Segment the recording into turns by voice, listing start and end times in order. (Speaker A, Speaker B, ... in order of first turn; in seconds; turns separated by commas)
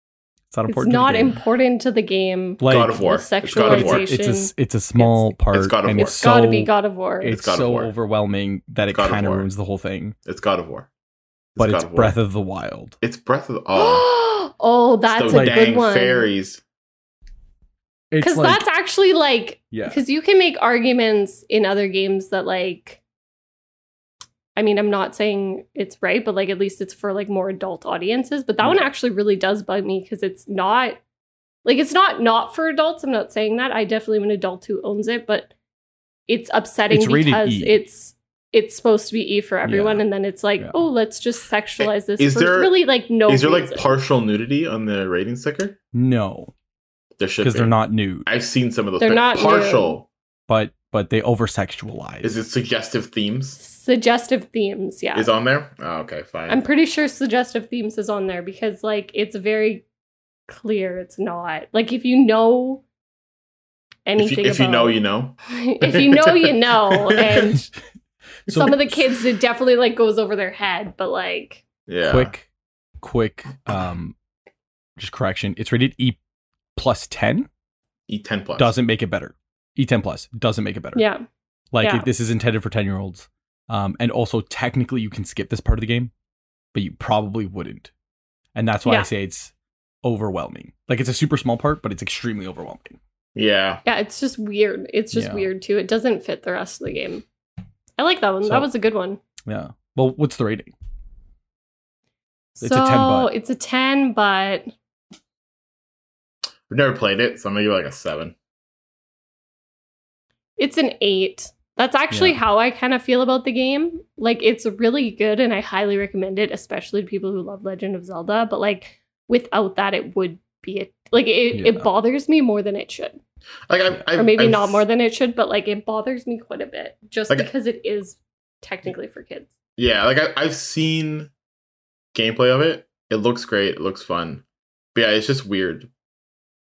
Speaker A: 0.5-1.4, Speaker B: 0.7-5.3, Speaker A: 2.6-10.1, Speaker C: 2.6-4.1, Speaker C: 5.5-6.2, Speaker B: 5.9-7.3, Speaker C: 7.2-7.9, Speaker C: 8.9-9.5, Speaker C: 10.2-10.9, Speaker C: 11.5-12.2, Speaker A: 11.6-12.9, Speaker C: 13.0-14.1, Speaker B: 13.7-16.3, Speaker C: 15.1-16.6, Speaker A: 15.3-15.6, Speaker A: 18.1-18.6, Speaker B: 18.2-23.0, Speaker A: 19.7-20.0, Speaker B: 24.6-31.0, Speaker B: 31.6-35.5, Speaker B: 36.3-44.0, Speaker A: 36.9-37.8, Speaker A: 39.6-40.0, Speaker A: 40.6-40.9, Speaker C: 41.8-45.8, Speaker A: 45.9-46.5, Speaker C: 47.2-50.1, Speaker A: 47.4-48.3, Speaker B: 49.0-50.0, Speaker A: 50.5-52.3, Speaker C: 52.2-53.6, Speaker B: 53.6-55.3, Speaker C: 55.1-56.6, Speaker B: 56.5-59.8, Speaker B: 60.5-62.8, Speaker B: 64.0-67.7, Speaker C: 64.2-67.5, Speaker A: 68.5-69.0, Speaker B: 68.5-71.6, Speaker C: 71.9-72.3, Speaker A: 72.1-72.4, Speaker A: 73.0-74.1, Speaker A: 75.0-76.2, Speaker A: 76.8-77.5, Speaker C: 78.1-78.7, Speaker A: 78.6-81.0, Speaker B: 80.9-81.2, Speaker A: 81.7-86.1, Speaker B: 81.8-82.1, Speaker A: 86.7-87.9, Speaker A: 88.5-89.5, Speaker A: 90.0-93.0, Speaker C: 93.3-93.8, Speaker B: 93.8-97.2, Speaker A: 95.1-95.5, Speaker B: 98.0-99.2, Speaker A: 99.4-100.7, Speaker A: 102.6-103.3, Speaker B: 102.6-104.7, Speaker C: 106.7-108.3, Speaker B: 110.6-123.2, Speaker A: 112.1-112.4, Speaker A: 121.5-121.8, Speaker C: 123.7-124.8, Speaker B: 124.1-129.5, Speaker C: 129.8-131.3, Speaker C: 132.1-134.4, Speaker C: 134.9-135.9